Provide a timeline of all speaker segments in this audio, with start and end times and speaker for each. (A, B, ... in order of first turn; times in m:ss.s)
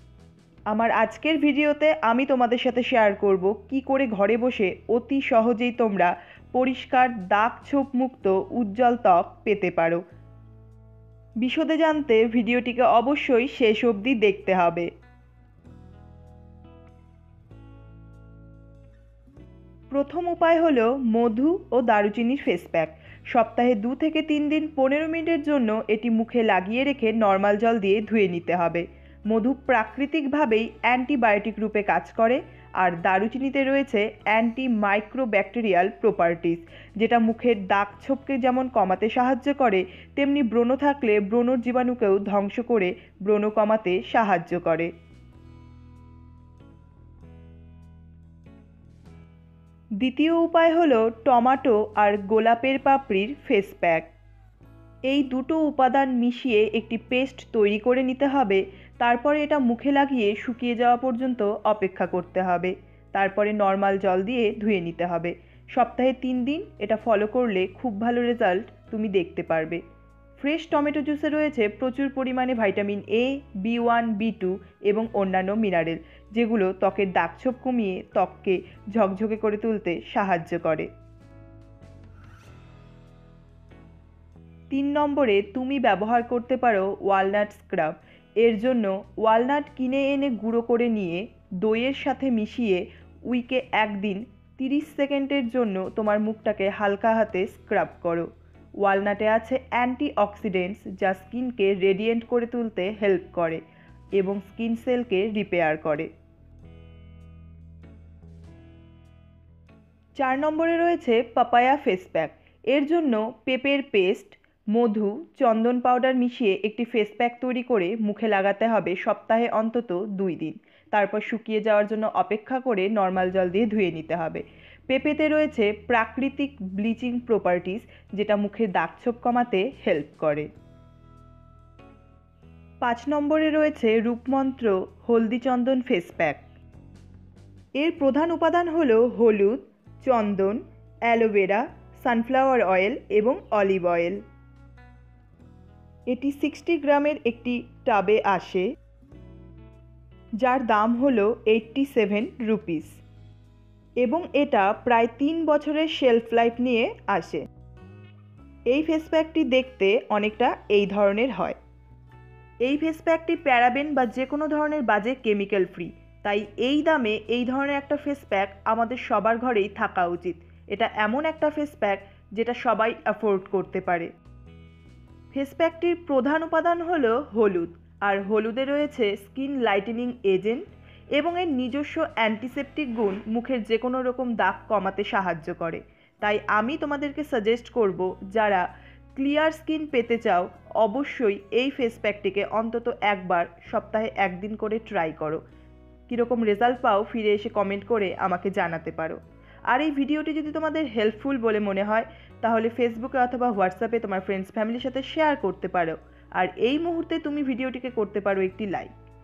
0:00.7-0:10.0 A
0:11.4-0:14.9 A
0:19.9-0:44.9 A
0:50.0-0:54.1 A
0:55.1-1:09.8 A
1:10.4-1:20.9 A
1:24.7-1:38.3 A
1:38.8-1:43.6 A
1:44.2-1:46.1 A
1:50.2-2:10.5 A
2:12.8-2:16.4 A
2:17.8-2:24.2 A
2:26.1-2:28.7 A
2:30.4-2:33.0 A
2:34.0-2:37.4 A
2:38.7-2:41.6 A
2:42.6-2:54.1 A
2:55.3-3:15.4 A
3:16.1-3:28.9 A